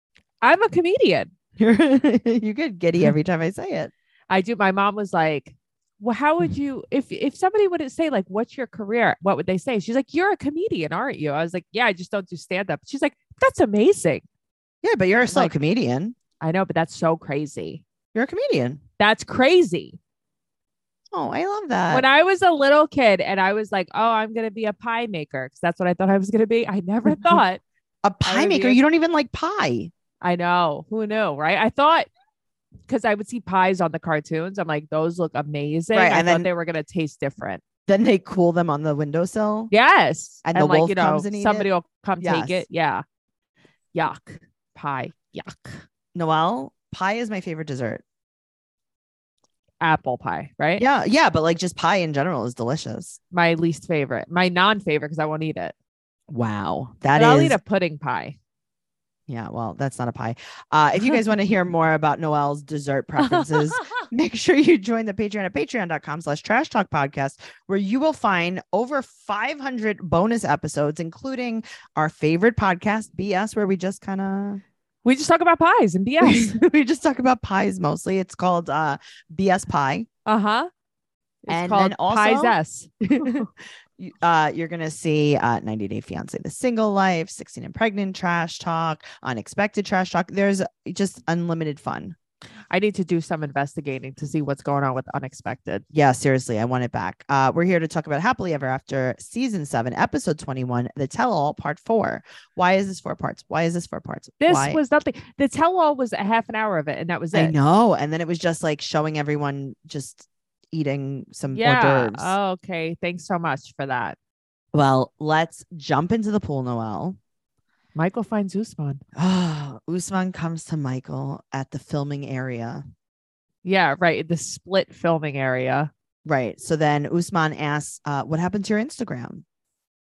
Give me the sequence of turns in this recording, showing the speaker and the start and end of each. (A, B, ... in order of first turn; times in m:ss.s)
0:00.4-0:01.3 A
0:01.6-0:03.9 B
0:04.3-0:14.2 A
0:14.8-0:16.1 B
0:15.3-0:15.5 A
0:16.4-0:17.8 A
0:18.1-0:18.8 B
0:19.0-0:20.0 A
0:21.1-0:22.0 B
0:21.9-0:27.6 A
0:28.0-0:29.9 B
0:28.2-0:28.8 A
0:30.2-0:32.1 A
0:32.9-0:37.6 A
0:35.9-0:36.5 B
0:37.9-0:39.7 B
0:39.7-0:43.0 A
0:40.4-0:41.7 B
0:42.2-0:42.6 B
0:43.9-0:45.8 A
0:46.1-0:48.0 B
0:49.8-0:50.8 A
0:50.8-0:53.2 B
0:53.3-0:55.7 A
0:56.3-0:57.6 B
0:57.1-0:58.4 A
0:59.3-1:14.6 B
1:03.2-1:04.0 A
1:15.0-1:16.5 A
1:16.2-1:20.1 B
1:20.2-1:20.7 A
1:21.4-1:22.9 A
1:21.5-1:32.1 B
1:32.7-1:35.8 A
1:35.9-1:44.8 B
1:44.4-1:47.6 A
1:47.3-1:52.4 B
1:51.5-1:54.2 A
1:54.7-1:57.2 B
1:58.0-1:59.0 A
1:59.2-2:02.8 B
2:03.6-2:05.9 A
2:06.2-2:09.4 B